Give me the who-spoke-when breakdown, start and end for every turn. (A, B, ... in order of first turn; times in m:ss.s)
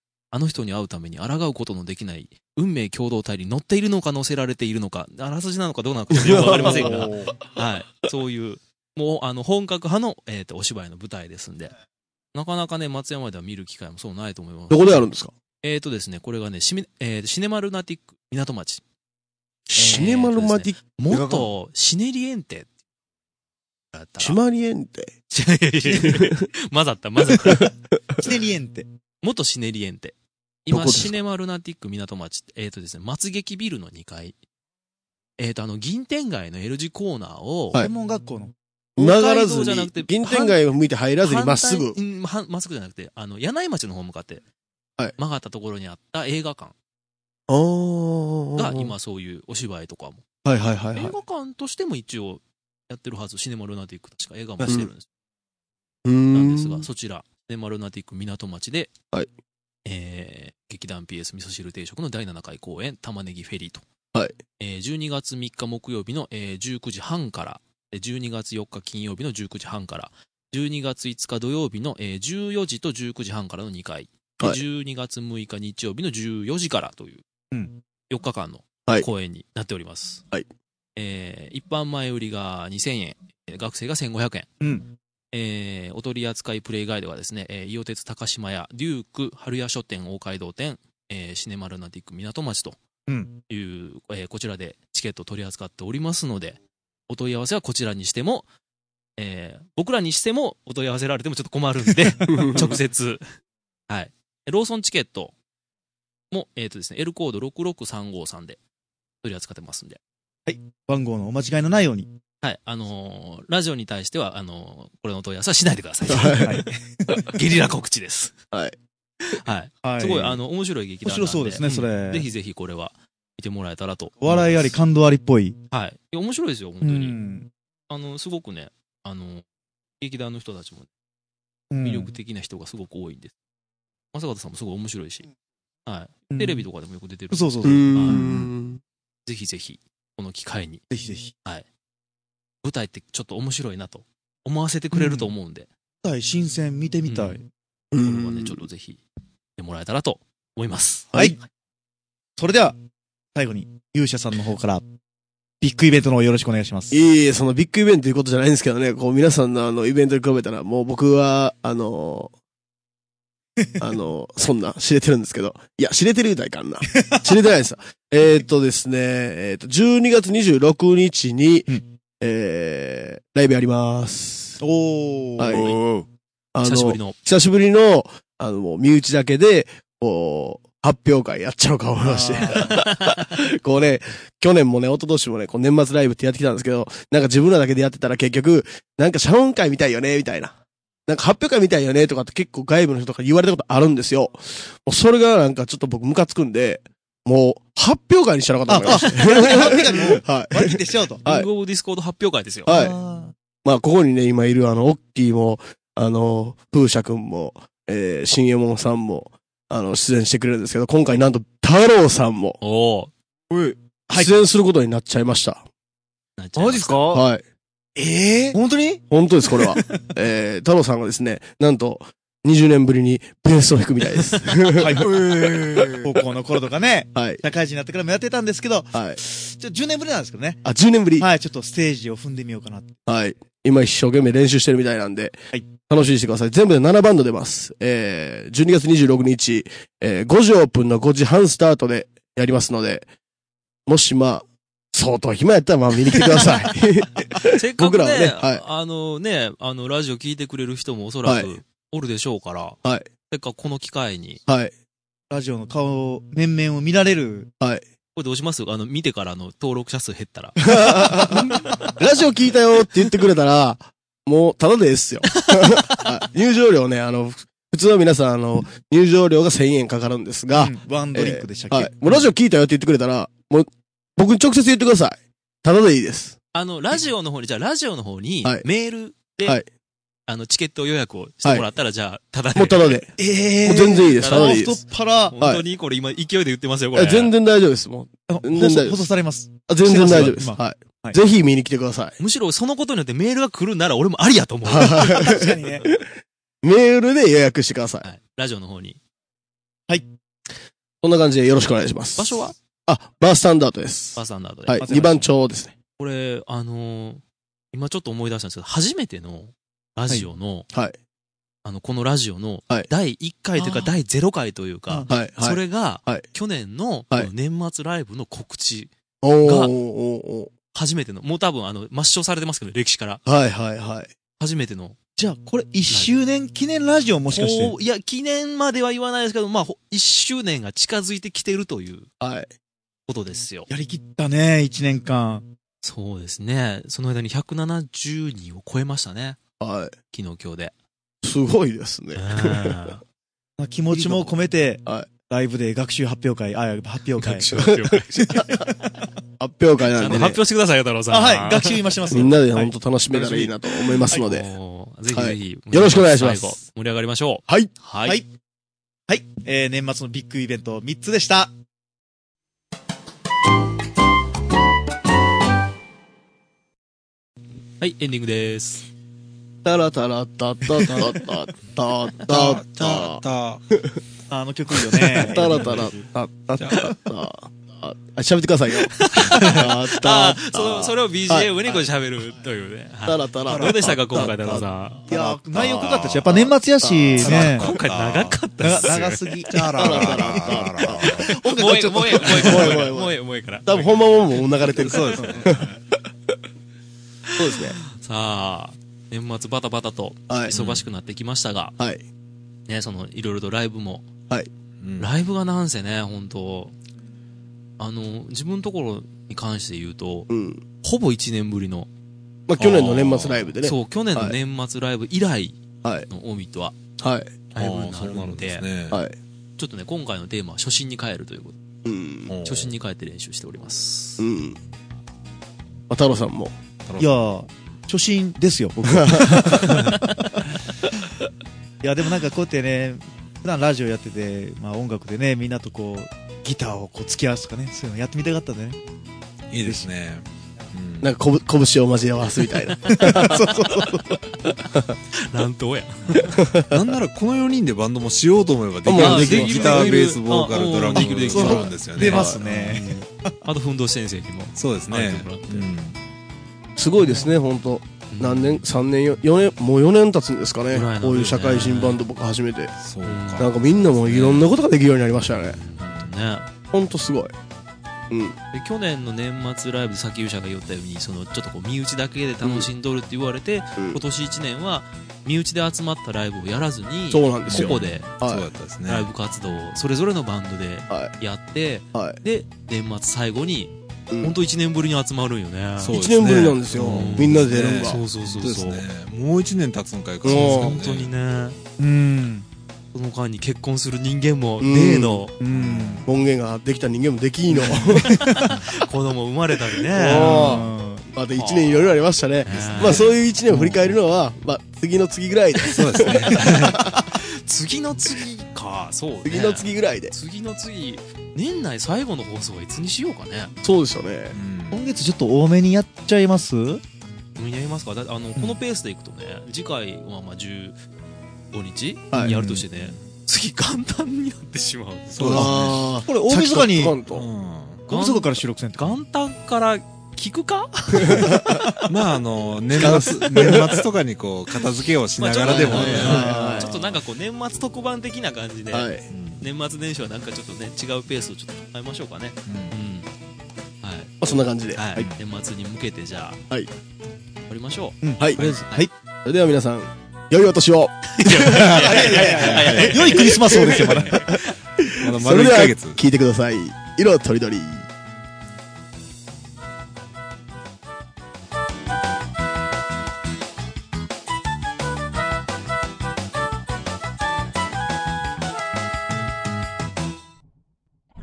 0:00.3-0:11.7 A
0:06.1-0:07.3 B
0:06.5-0:07.3 C
0:12.3-0:15.1 A
0:14.7-0:15.3 B
0:15.6-0:18.8 A
0:19.7-0:20.9 B
0:19.8-0:22.7 A
0:21.1-0:21.5 D
0:23.9-0:24.4 A
0:24.2-0:25.2 B
0:25.3-0:27.7 A
0:25.9-0:26.5 B
0:27.3-0:27.7 B
0:28.2-0:28.9 C
0:29.2-0:34.4 A
0:30.7-0:31.1 B
0:35.4-0:37.8 A
0:37.8-0:38.5 C
0:39.0-0:40.6 A
0:39.0-0:42.0 B
0:41.2-0:44.4 A
0:45.2-0:46.7 A
0:47.5-0:48.9 B
0:48.6-0:50.2 A
0:50.4-0:51.2 B
0:50.9-0:55.1 A
0:56.0-0:56.9 B
0:56.3-0:58.9 A
0:59.9-1:03.8 A
1:04.6-1:17.2 A
1:17.5-1:17.8 C
1:18.1-1:20.2 A
1:21.0-1:24.5 A
1:24.6-1:24.9 C
1:25.3-1:32.8 A
1:33.1-1:33.4 C
1:33.5-1:38.5 A
1:39.2-1:43.3 A
1:42.4-1:42.7 B
1:43.9-1:45.4 A
1:46.3-1:48.6 A
1:49.2-1:50.0 A
1:50.5-1:52.1 C
1:52.4-1:56.7 A
1:56.1-1:57.2 B
1:56.4-1:57.3 C
1:57.2-1:58.4 A
1:59.3-2:04.8 A
1:59.8-2:00.4 C
2:01.0-2:02.3 C
2:04.2-2:05.6 C
2:05.7-2:07.2 A
2:06.8-2:07.5 C
2:07.9-2:09.4 A
2:10.0-2:10.9 A
2:11.7-2:12.1 C
2:11.8-2:13.4 A
2:14.1-2:15.3 A
2:15.9-2:18.3 A
2:16.3-2:16.6 C
2:17.3-2:18.2 C
2:17.6-2:18.8 B
2:19.3-2:20.8 A
2:20.9-2:21.3 C
2:22.6-2:25.7 A
2:24.9-2:25.3 C
2:26.0-2:27.5 C
2:27.1-2:27.4 A
2:27.9-2:28.6 B
2:28.0-2:29.0 A
2:29.6-2:31.1 A
2:32.4-2:32.8 C
2:33.3-2:34.9 C
2:35.6-2:37.0 C
2:36.9-2:42.3 B
2:43.8-2:54.6 B
2:47.0-2:47.2 C
2:54.6-2:55.8 C
2:55.4-2:55.9 B
2:55.5-2:56.0 D
2:56.6-3:21.5 B
2:56.6-2:57.2 A
3:02.0-3:02.8 C
3:18.7-3:21.2 C
3:21.2-3:22.7 A
3:22.7-3:23.0 B
3:22.7-3:23.3 C
3:23.6-3:32.6 B
3:32.6-3:33.1 A
3:33.5-3:34.2 D
3:34.1-3:35.6 B
3:36.4-3:37.1 A
3:36.6-3:37.2 D
3:37.1-3:37.4 B
3:38.0-3:39.0 D
3:39.1-3:45.0 B
3:44.2-3:44.5 A
3:44.8-3:50.6 C
3:45.0-3:46.1 D
3:47.2-3:47.4 B
3:50.6-3:51.3 B
3:51.2-3:53.0 C
3:53.1-4:03.1 B
4:03.9-4:08.6 B
4:07.4-4:14.4 A
4:11.2-4:11.5 B
4:14.5-4:14.7 B
4:15.3-4:17.5 C
4:18.2-4:21.7 A
4:20.6-4:36.4 B
4:30.5-4:32.3 C
4:36.5-4:39.6 A
4:40.3-4:43.1 A
4:42.6-4:44.8 B
4:43.2-4:45.4 C
4:44.2-4:47.3 A
4:46.9-4:49.0 B
4:48.3-4:51.2 C
4:49.7-4:52.2 B
4:49.9-4:50.4 A
4:52.2-4:55.3 A
4:54.7-4:56.1 B
4:55.1-4:55.9 C
4:56.6-4:58.1 B
4:58.0-4:59.0 A
5:01.0-5:05.8 B
5:02.2-5:02.6 A
5:04.2-5:05.1 A
5:04.8-5:05.3 C
5:06.0-5:07.2 A
5:07.7-5:10.7 A
5:10.7-5:11.0 B
5:11.6-5:19.7 A
5:13.6-5:13.9 C
5:15.1-5:16.3 B
5:19.2-5:20.5 B
5:20.7-5:23.2 A
5:23.3-5:24.1 B
5:24.4-5:25.0 A
5:25.2-5:27.8 C
5:25.9-5:26.2 A
5:27.3-5:32.1 A
5:32.2-5:32.5 B
5:33.1-5:33.7 A
5:33.7-5:35.5 C
5:35.8-5:39.4 A
5:39.6-5:39.9 B
5:40.1-5:40.7 A
5:41.2-5:42.8 B
5:42.2-5:43.0 A
5:43.6-5:48.9 C
5:43.9-5:44.3 B
5:47.2-5:48.4 A
5:47.5-5:48.5 B
5:49.4-5:50.4 B
5:50.0-5:58.2 A
5:51.1-5:52.7 C
5:52.1-5:54.5 B
5:55.1-5:56.6 B
5:59.1-6:01.5 C
6:07.8-6:08.9 A
6:09.6-6:13.2 B
6:12.3-6:13.6 E
6:13.7-6:14.0 B
6:14.3-6:16.0 C
6:15.0-6:21.5 B
6:16.6-6:16.9 E
6:18.9-6:25.1 A
6:23.1-6:24.5 B
6:23.5-6:24.6 E
6:24.2-6:27.7 C
6:25.1-6:27.5 B
6:27.2-6:28.9 E
6:27.2-6:29.4 A
6:28.6-6:30.3 C
6:29.5-6:31.4 E
6:29.8-6:31.4 B
6:31.2-6:32.9 C
6:31.3-6:34.0 A
6:32.2-6:36.0 B
6:34.6-6:35.7 E
6:37.4-6:37.8 B
6:37.4-6:41.8 A
6:40.3-6:40.6 B
6:40.5-6:40.8 E
6:42.7-6:44.1 A
6:44.8-6:45.1 E
6:45.0-6:46.7 A
6:47.8-6:50.3 A
6:50.3-6:50.6 B
6:50.8-6:51.9 A
6:52.5-6:54.4 B
6:52.6-6:53.5 E
6:53.6-6:56.8 A
6:57.0-6:57.3 B
6:57.5-6:58.7 A
6:57.6-6:59.0 E
6:58.9-6:59.2 B
6:59.6-7:01.6 A
7:01.8-7:02.3 B
7:02.3-7:02.7 E
7:02.4-7:04.2 A
7:04.2-7:04.6 B
7:05.9-7:06.6 B
7:06.9-7:07.1 E
7:07.0-7:10.2 C
7:08.9-7:09.8 B
7:09.5-7:10.0 E
7:11.8-7:18.8 C
7:19.5-7:21.1 E
7:19.6-7:19.9 C
7:21.0-7:23.4 B
7:22.7-7:23.4 A
7:22.9-7:24.2 C
7:24.5-7:25.0 B
7:25.1-7:26.4 A
7:26.2-7:26.8 B
7:26.6-7:32.4 E
7:28.9-7:30.2 B
7:28.9-7:35.7 A
7:30.9-7:32.4 B
7:32.0-7:33.3 C
7:34.6-7:36.0 E
7:36.8-7:42.7 B
7:37.0-7:37.3 A
7:38.1-7:38.6 A
7:40.7-7:42.0 A
7:42.8-7:44.4 E
7:43.0-7:44.5 A
7:43.4-7:45.6 B
7:45.3-7:46.5 A
7:45.8-7:46.1 E
7:46.7-7:47.3 B
7:48.1-7:48.4 B
7:48.5-7:58.1 A
7:57.1-7:58.4 B
7:57.5-7:59.1 E
7:58.8-8:06.0 A
8:01.9-8:02.2 B
8:05.8-8:11.1 E
8:05.9-8:08.0 B
8:06.8-8:08.8 A
8:10.2-8:10.8 B
8:10.2-8:11.6 A
8:11.8-8:12.5 C
8:12.9-8:15.3 A
8:14.6-8:15.3 B
8:15.4-8:16.1 C
8:15.5-8:16.1 E
8:16.1-8:18.2 B
8:17.6-8:17.9 E
8:18.0-8:20.6 A
8:18.0-8:18.6 C
8:19.9-8:27.0 B
8:20.2-8:21.1 C
8:21.3-8:23.2 A
8:22.5-8:23.9 E
8:25.7-8:27.0 E
8:26.8-8:33.5 A
8:29.2-8:30.1 B
8:33.6-8:34.4 B
8:34.3-8:34.8 E
8:34.7-8:36.8 C
8:37.4-8:40.8 A
8:41.5-8:45.6 A
8:42.2-8:43.0 E
8:45.2-8:45.9 E
8:45.2-8:47.3 B
8:46.0-8:47.0 C
8:47.1-8:47.8 E
8:47.9-8:49.0 C
8:47.9-8:51.8 A
8:51.0-8:51.6 B
8:51.0-8:56.3 E
8:52.8-8:53.8 B
8:55.2-8:58.9 A
8:55.5-8:56.7 B
8:55.8-8:56.7 C
8:58.7-8:59.1 B
8:59.1-8:59.4 E
8:59.4-9:03.1 A
9:02.5-9:02.7 E
9:03.8-9:06.4 A
9:04.2-9:04.8 B
9:07.5-9:08.9 A
9:08.0-9:08.9 C
9:09.2-9:12.5 B
9:11.2-9:14.5 A
9:11.4-9:14.3 C
9:12.3-9:12.9 E
9:13.3-9:17.9 B
9:14.9-9:16.0 E